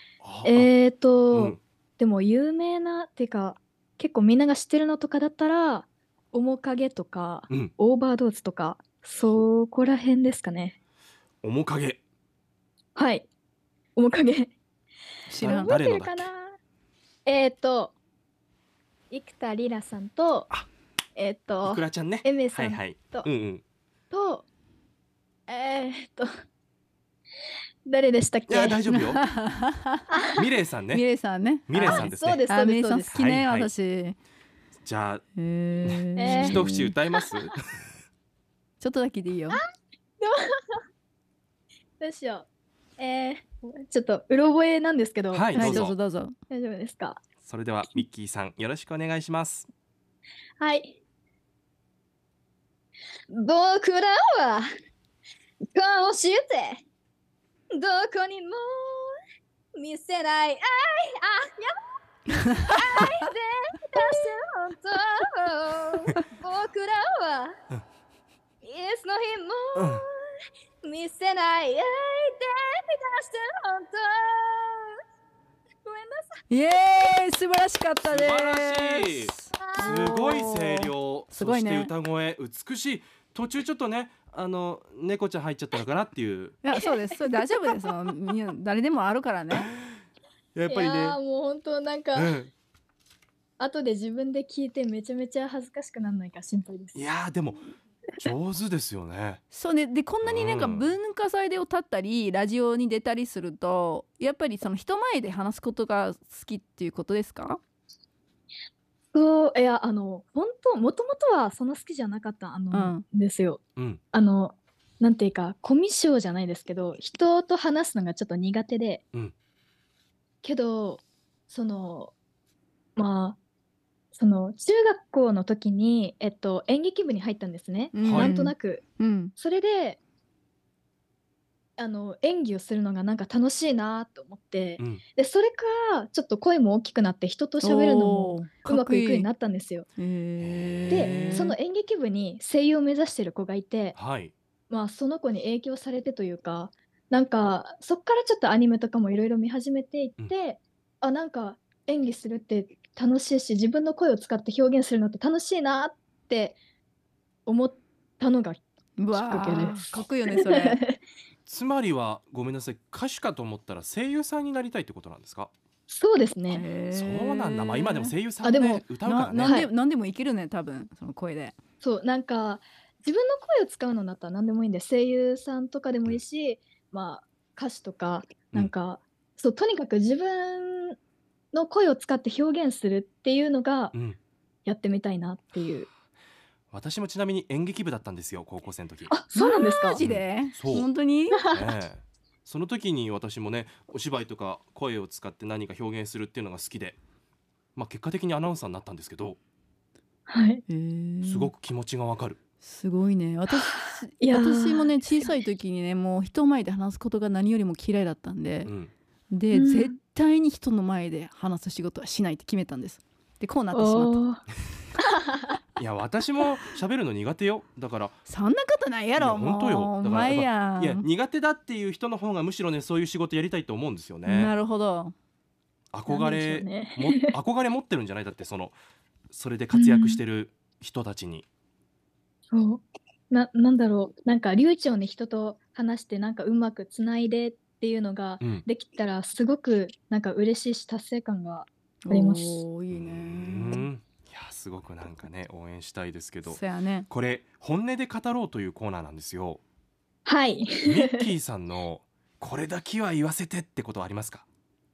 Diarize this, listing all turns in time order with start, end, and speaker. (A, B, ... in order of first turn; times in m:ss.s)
0:00.2-0:00.7 A
0:00.4-0:10.8 B
0:01.3-0:01.6 A
0:11.4-0:12.0 A
0:13.0-0:13.3 B
0:14.0-0:14.6 B
0:15.3-0:15.8 C
0:15.4-0:16.6 B
0:15.4-0:16.3 A
0:17.2-0:18.0 B
0:19.1-0:20.5 B
0:21.2-0:23.3 B
0:21.6-0:23.6 A
0:24.1-0:24.5 B
0:25.5-0:26.3 B
0:27.8-0:28.8 B
0:28.5-0:29.2 A
0:28.9-0:30.2 C
0:30.4-0:31.0 A
0:30.9-0:34.2 C
0:31.7-0:32.4 A
0:31.8-0:33.1 B
0:33.1-0:33.7 A
0:34.8-0:35.2 A
0:35.4-0:36.9 C
0:35.8-0:37.9 A
0:36.2-0:37.2 B
0:38.8-0:39.6 C
0:40.2-0:40.8 B
0:42.0-0:42.5 B
0:43.0-0:45.9 B
0:45.3-0:46.0 A
0:45.5-0:46.4 C
0:46.5-0:47.2 B
0:47.4-0:49.7 A
0:50.6-0:51.0 B
0:53.3-0:54.7 B
0:55.7-0:56.8 B
0:57.7-0:59.2 B
0:59.7-1:01.8 B
1:02.7-1:07.5 B
1:08.6-1:10.2 B
1:09.8-1:10.0 A
1:10.8-1:15.0 B
1:15.8-1:16.4 B
1:16.5-1:21.9 C
1:18.1-1:26.6 A
1:19.6-1:20.1 B
1:26.6-1:29.7 C
1:29.5-1:30.0 A
1:30.6-1:31.2 A
1:30.7-1:32.4 B
1:32.2-1:32.5 A
1:33.6-1:37.0 B
1:37.0-1:37.6 A
1:38.2-1:39.4 A
1:39.5-1:47.6 C
1:40.2-1:41.0 A
1:49.1-1:53.6 B
1:52.7-1:53.0 C
1:54.1-1:59.0 B
2:00.4-2:02.1 B
2:03.0-2:03.4 B
2:04.1-2:08.8 B
2:07.9-2:09.3 C
2:08.0-2:08.3 A
2:09.4-2:10.0 B
2:11.8-2:19.9 B
2:17.6-2:19.3 C
2:20.0-2:21.6 C
2:20.4-2:21.5 A
2:20.9-2:24.0 B
2:24.0-2:24.3 A
2:24.7-2:36.6 B
2:37.5-2:38.6 B
2:39.0-2:40.8 C
2:39.1-2:41.0 B
2:41.5-2:45.5 A
2:45.9-2:46.7 B
2:46.5-2:48.2 C
2:46.9-2:49.6 A
2:48.4-2:48.9 B
2:49.0-2:51.6 C
2:49.4-2:49.7 B
2:51.8-3:01.0 B
3:01.5-3:04.0 B
3:03.9-3:04.2 A
3:04.6-3:05.9 B
3:06.7-3:09.1 A
3:09.1-3:10.0 B
3:09.3-3:11.4 C
3:10.0-3:10.9 A
3:11.4-3:11.6 B
3:11.5-3:17.0 A
3:17.8-3:19.4 A
3:20.3-3:20.6 B
3:20.7-3:21.5 C
3:21.2-3:22.4 A
3:22.6-3:28.7 C
3:23.5-3:25.0 B
3:28.7-3:28.9 A
3:29.3-3:34.2 C
3:29.5-3:30.0 B
3:33.7-3:34.4 B
3:35.0-3:35.5 B
3:35.8-3:38.2 A
3:38.3-3:41.1 C
3:39.2-3:44.6 A
3:44.3-3:45.1 C
3:45.9-3:48.8 A
3:46.1-3:47.4 B
3:49.3-3:51.5 A
3:49.7-3:50.2 B
3:52.5-4:02.6 B
4:02.0-4:03.9 C
4:02.9-4:09.6 A
4:06.4-4:07.1 C
4:10.2-4:11.2 B
4:10.8-4:14.4 A